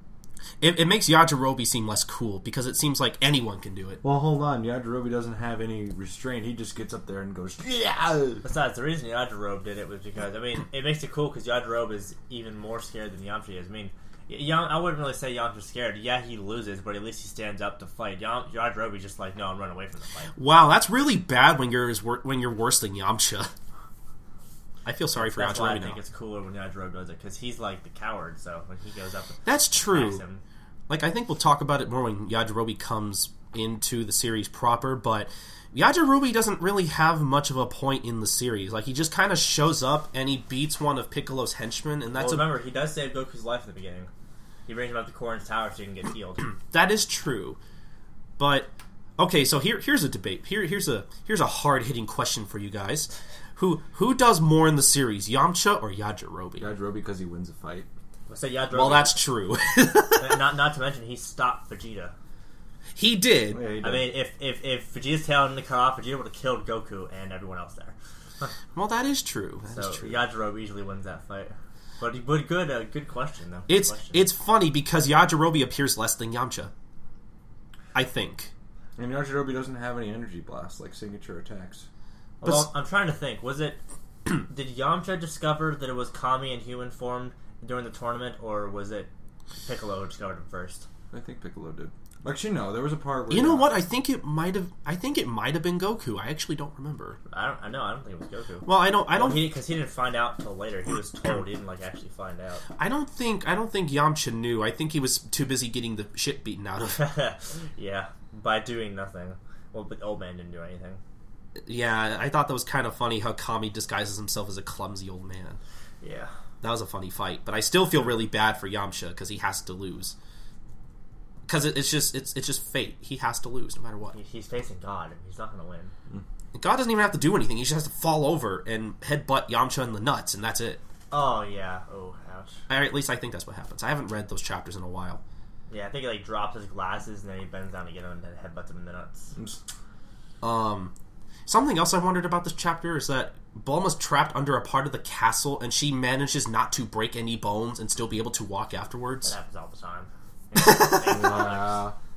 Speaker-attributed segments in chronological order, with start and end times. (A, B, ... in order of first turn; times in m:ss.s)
0:00.6-0:04.0 A
0:04.0-0:08.4 B
0:08.4-0:20.3 C
0:20.4-0:23.5 A
0:24.8-0:26.0 A
0:25.2-0:30.4 C
0:29.5-0:30.2 A
0:30.9-0:42.5 A
0:42.1-0:44.1 C
0:44.7-0:46.5 C
0:46.5-0:47.6 A
0:48.4-0:56.7 A
0:56.6-0:57.9 B
0:58.3-0:59.2 C
0:58.7-1:00.4 A
1:00.2-1:02.1 C
1:03.0-1:03.6 A
1:03.5-1:04.1 B
1:03.8-1:08.5 C
1:08.7-1:10.2 A
1:09.7-1:14.3 C
1:13.7-1:16.7 A
1:17.9-1:18.5 A
1:19.0-1:21.9 B
1:22.4-1:23.8 C
1:22.4-1:22.7 A
1:24.4-1:30.9 C
1:31.1-1:33.7 B
1:33.3-1:37.2 A
1:37.3-1:42.6 C
1:38.7-1:39.5 A
1:42.8-1:47.0 A
1:46.9-1:51.0 C
1:51.6-1:55.6 A
1:56.0-1:56.3 C
1:56.6-2:00.2 A
2:01.5-2:04.2 A
2:04.1-2:05.9 C
2:06.5-2:10.8 A
2:11.1-2:12.6 C
2:12.7-2:15.2 A
2:15.7-2:19.3 C
2:19.4-2:19.6 B
2:20.4-2:20.9 A
2:21.5-2:29.3 A
2:29.2-2:31.8 C
2:30.6-2:31.4 A
2:31.1-2:32.0 B